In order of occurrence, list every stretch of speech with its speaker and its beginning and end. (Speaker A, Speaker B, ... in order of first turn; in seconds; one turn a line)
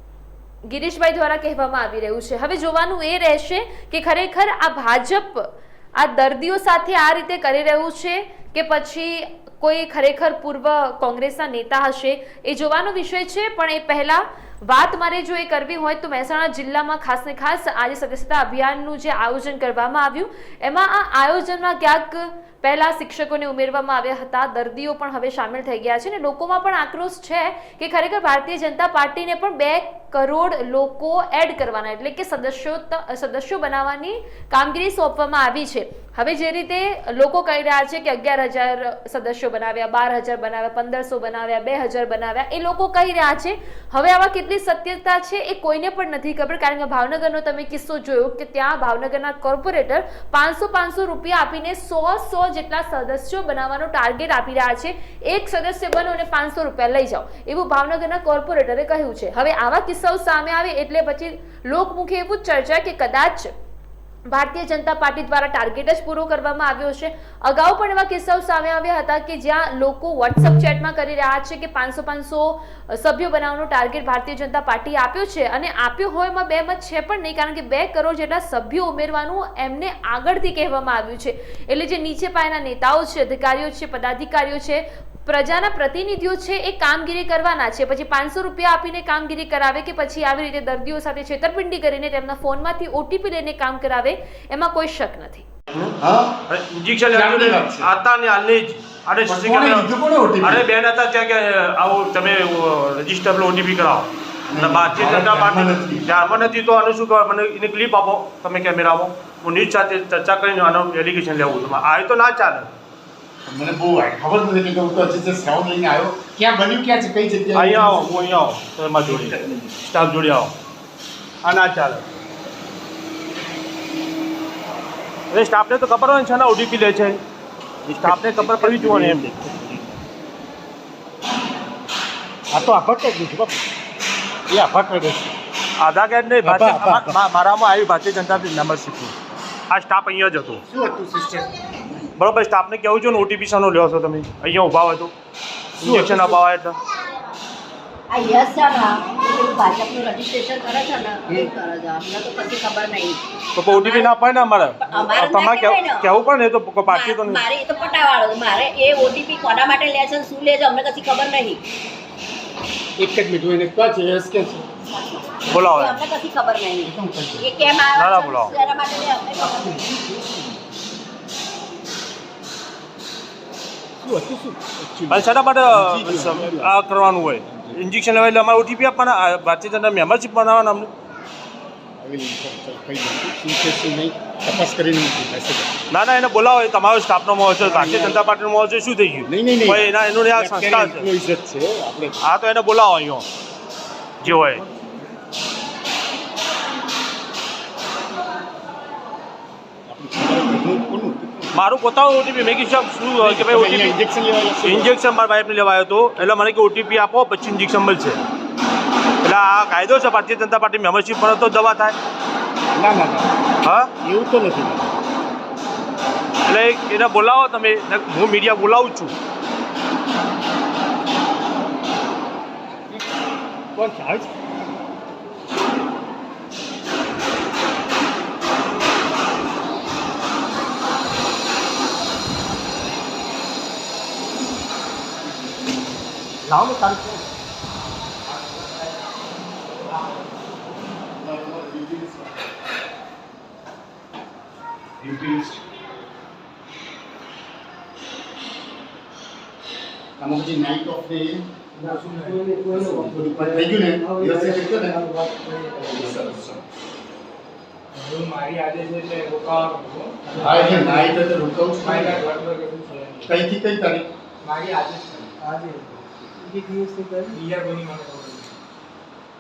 Speaker A: 0.7-63.5
Speaker A: 64.3-95.5
Speaker B: 96.0-96.3
Speaker C: 96.5-112.7
Speaker B: 97.1-97.9
Speaker B: 99.3-100.7
Speaker B: 104.5-106.1
Speaker B: 113.5-118.3
Speaker C: 117.5-120.5
Speaker B: 119.1-119.7
Speaker C: 121.4-122.0
Speaker C: 125.3-127.2
Speaker B: 127.9-129.9
Speaker C: 128.0-129.3
Speaker B: 132.5-133.6
Speaker B: 134.5-135.3
Speaker C: 135.8-139.1
Speaker B: 136.4-137.2
Speaker C: 139.7-140.6
Speaker B: 140.7-142.0
Speaker C: 142.2-145.1
Speaker C: 145.8-146.8
Speaker B: 145.8-146.4
Speaker D: 148.1-154.1
Speaker C: 153.6-157.5
Speaker D: 154.8-156.1
Speaker D: 156.9-161.6
Speaker B: 163.0-164.8
Speaker D: 165.2-169.8
Speaker C: 165.5-166.1
Speaker B: 166.8-167.7
Speaker C: 167.9-168.5
Speaker B: 169.3-170.6
Speaker B: 174.0-176.7
Speaker C: 175.1-180.9
Speaker B: 177.5-177.8
Speaker B: 182.0-185.7
Speaker C: 185.9-191.1
Speaker B: 187.6-188.2
Speaker B: 189.3-192.2
Speaker C: 192.2-193.3
Speaker C: 194.2-194.6
Speaker B: 199.9-201.6
Speaker C: 201.5-204.0
Speaker B: 203.2-204.9
Speaker C: 204.6-208.2
Speaker C: 209.2-212.0
Speaker B: 212.7-213.3
Speaker C: 213.6-213.9
Speaker B: 214.0-214.9
Speaker C: 216.5-219.1
Speaker B: 223.8-224.3
Speaker C: 236.5-237.2
Speaker B: 241.2-242.4
Speaker B: 250.2-251.5
Speaker E: 251.8-253.1
Speaker B: 252.3-255.2
Speaker E: 255.7-256.4
Speaker B: 255.7-256.6
Speaker E: 257.9-261.3
Speaker B: 260.4-262.3
Speaker E: 261.8-263.3
Speaker B: 263.2-264.1
Speaker E: 264.4-265.9
Speaker E: 267.2-268.5